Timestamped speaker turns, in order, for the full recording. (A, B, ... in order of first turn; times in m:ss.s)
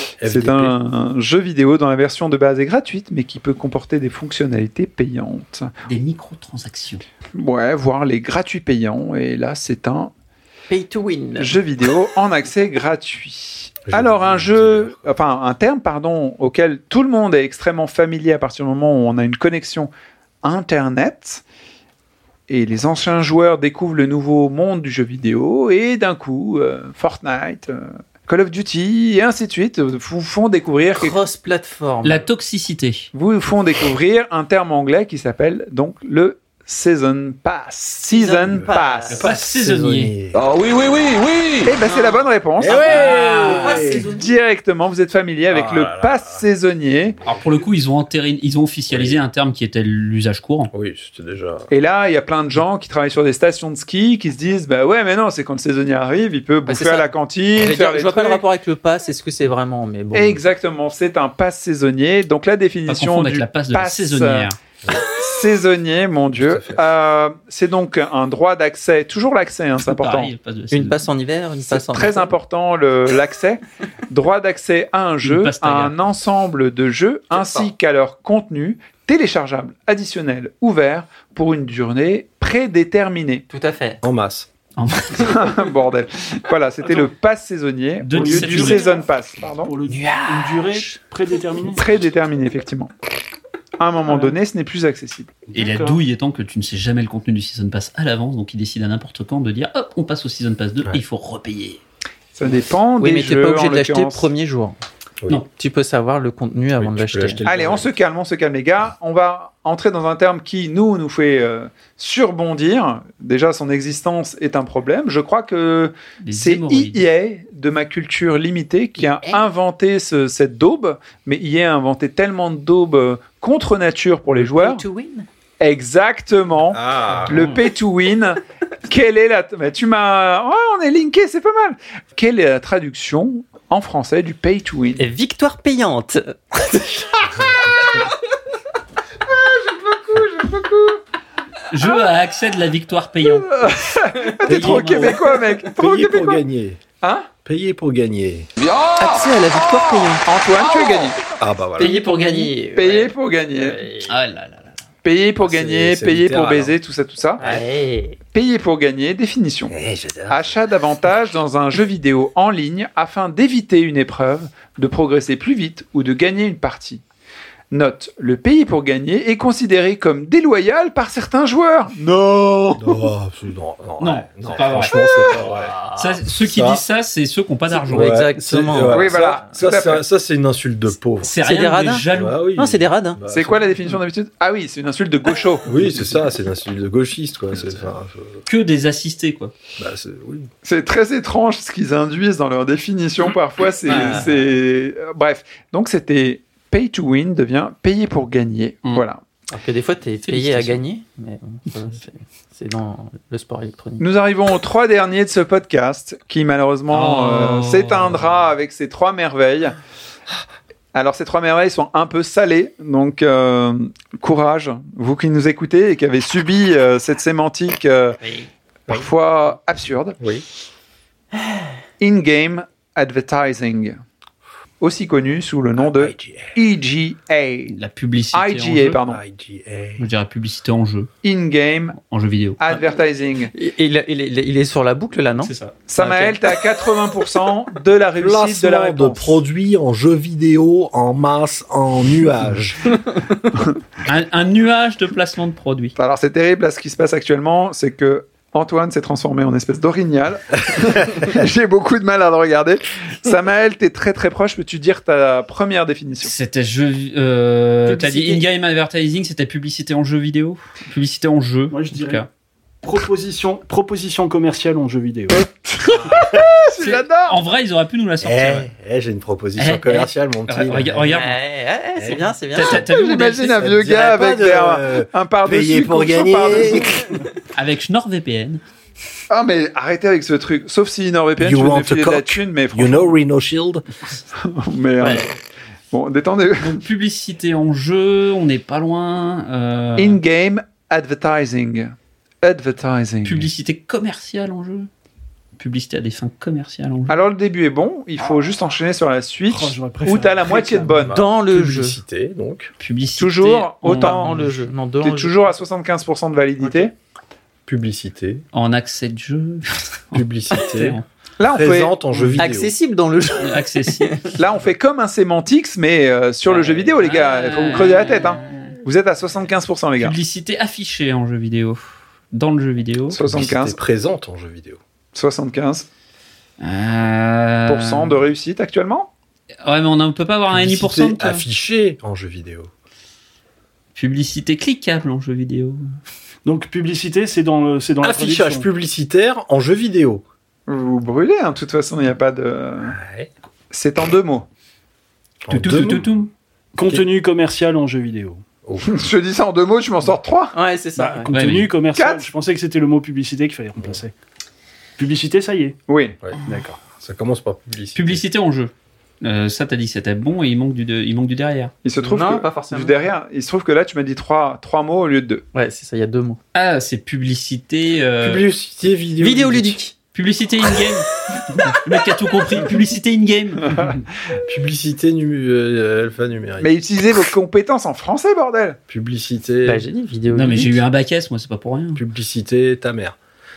0:00.2-0:00.8 A
0:00.2-0:05.7 B
0:05.9-0:07.0 C
0:07.4-0:10.1 B
0:10.7-0:11.5 D
0:11.4-0:19.9 B
0:13.9-0:15.1 A
0:20.4-0:21.4 B
0:22.5-0:31.2 B
0:31.0-0:32.3 D
0:32.0-0:33.1 C
0:33.1-0:39.2 B
0:38.1-0:39.3 D
0:39.1-0:40.1 C
0:39.2-0:40.4 A
0:40.3-0:41.7 E
0:41.6-0:43.0 B
0:41.8-0:44.3 D
0:42.6-0:44.1 A
0:42.7-0:43.9 C
0:44.1-0:47.2 B
0:45.5-0:46.4 A
0:47.2-0:50.7 C
0:48.9-0:49.2 A
0:50.7-0:51.7 A
0:51.7-0:58.4 B
0:56.7-1:00.4 D
1:00.1-1:04.5 B
1:02.9-1:04.6 C
1:05.0-1:10.3 B
1:06.4-1:06.8 A
1:09.8-1:11.0 C
1:10.7-1:12.3 D
1:11.7-1:23.4 B
1:15.2-1:16.0 C
1:17.3-1:17.7 D
1:23.5-1:24.0 D
1:24.0-1:24.5 A
1:24.8-1:25.3 C
1:25.2-1:29.7 B
1:28.0-1:28.9 C
1:28.1-1:29.0 F
1:29.6-1:31.9 F
1:29.9-1:31.0 D
1:31.7-1:32.9 B
1:33.8-1:35.3 B
1:34.1-1:34.4 F
1:35.5-1:36.0 F
1:35.5-1:41.8 C
1:42.3-1:44.3 B
1:43.0-1:44.8 D
1:45.6-1:47.4 D
1:46.8-1:47.9 A
1:47.4-2:04.8 B
1:56.2-1:57.0 C
2:04.3-2:05.3 D
2:05.6-2:15.0 B
2:06.7-2:07.5 A
2:15.0-2:17.5 D
2:19.2-2:21.0 B
2:21.7-2:23.5 C
2:23.4-2:26.4 B
2:24.4-2:26.8 A
2:24.5-2:25.3 D
2:24.5-2:25.0 C
2:27.0-2:27.3 B
2:27.4-2:28.5 A
2:28.6-2:31.1 E
2:29.0-2:30.2 D
2:30.2-2:31.2 B
2:31.4-2:32.0 A
2:31.8-2:34.1 D
2:31.9-2:32.5 C
2:32.7-2:33.8 B
2:34.1-2:34.7 C
2:35.0-2:37.6 B
2:35.4-2:36.8 A
2:37.4-2:38.2 D
2:38.3-2:39.7 B
2:39.7-2:40.6 A
2:40.3-2:47.0 B
2:47.7-2:53.0 B
2:52.8-2:55.7 A
2:54.0-2:55.0 C
2:55.6-2:56.2 D
2:55.9-2:58.3 C
2:56.4-2:56.8 A
2:57.7-2:59.4 D
2:57.9-3:01.3 A
2:58.9-3:00.0 B
3:01.2-3:02.4 C
3:01.4-3:03.2 D
3:02.1-3:03.9 A
3:03.3-3:05.7 B
3:05.6-3:08.4 A
3:08.4-3:09.5 C
3:09.8-3:10.5 A
3:10.6-3:19.2 B
3:13.9-3:14.4 D
3:19.5-3:24.0 D
3:20.2-3:20.8 C
3:24.0-3:29.7 B
3:26.9-3:28.2 C
3:30.9-3:38.2 B
3:38.2-3:38.5 D
3:38.9-3:40.2 B
3:42.0-3:44.0 B
3:44.8-3:47.7 B
3:45.8-3:46.6 A
3:47.7-3:49.0 C
3:48.3-3:49.2 B
3:49.0-3:50.1 A
3:50.0-3:51.1 C
3:51.2-3:52.0 B
3:52.0-3:52.6 C
3:52.6-3:53.5 B
3:53.5-3:56.4 D
3:55.4-3:55.8 C
3:55.9-3:59.4 B
3:58.2-4:02.8 A
4:04.0-4:05.9 C
4:06.0-4:16.3 B
4:16.2-4:22.3 C
4:17.9-4:18.4 D
4:21.7-4:22.2 F
4:22.8-4:25.4 F
4:25.6-4:27.4 B
4:26.8-4:28.7 C
4:28.2-4:31.2 A
4:29.6-4:31.4 C
4:31.1-4:32.8 D
4:32.0-4:32.2 A
4:32.5-4:33.6 C
4:32.7-4:37.0 B
4:33.6-4:37.0 A
4:37.5-4:38.6 C
4:39.3-4:43.1 B
4:41.4-4:43.8 A
4:44.4-4:45.3 B
4:45.9-4:46.8 B
4:46.6-4:50.2 C
4:50.0-4:53.5 B
4:53.2-4:54.9 C
4:55.6-4:57.2 C
4:57.1-5:01.2 B
4:59.5-5:01.0 F
5:01.0-5:02.7 A
5:01.1-5:02.0 D
5:02.8-5:04.5 C
5:03.2-5:04.3 B
5:03.9-5:05.5 D
5:05.0-5:06.9 B
5:06.6-5:06.9 D
5:07.6-5:08.4 A
5:08.5-5:11.0 C
5:10.1-5:12.7 A
5:11.4-5:12.0 B
5:12.4-5:14.4 D
5:13.4-5:14.1 C
5:14.4-5:20.2 B
5:16.7-5:18.7 C
5:20.0-5:23.4 C
5:23.1-5:23.8 B
5:23.2-5:24.8 A
5:25.1-5:25.9 B
5:26.6-5:28.2 C
5:27.7-5:29.1 B
5:29.6-5:31.4 C
5:30.5-5:32.7 A
5:33.9-5:35.9 C
5:36.4-5:38.6 F
5:38.0-5:40.2 A
5:40.7-5:43.0 B
5:42.9-5:43.3 A
5:43.7-5:44.4 B
5:45.4-5:46.0 A
5:45.5-5:46.3 C
5:46.7-5:48.4 F
5:48.6-5:49.0 A
5:48.8-5:50.5 B
5:50.5-5:51.3 D
5:51.0-5:54.1 F
5:51.3-5:51.7 C
5:51.9-5:52.3 B
5:55.0-5:55.8 F
5:55.9-5:56.2 B
5:56.2-5:58.2 A
5:57.9-6:01.7 C
6:01.8-6:05.4 B
6:02.0-6:03.0 D
6:05.5-6:06.4 D
6:06.5-6:08.4 C
6:08.2-6:09.8 A
6:09.2-6:09.9 D
6:10.1-6:11.1 C
6:11.6-6:13.9 C
6:14.4-6:16.7 A
6:16.6-6:18.8 B
6:18.9-6:19.8 A
6:19.6-6:20.8 D
6:20.3-6:22.0 C
6:21.9-6:23.2 A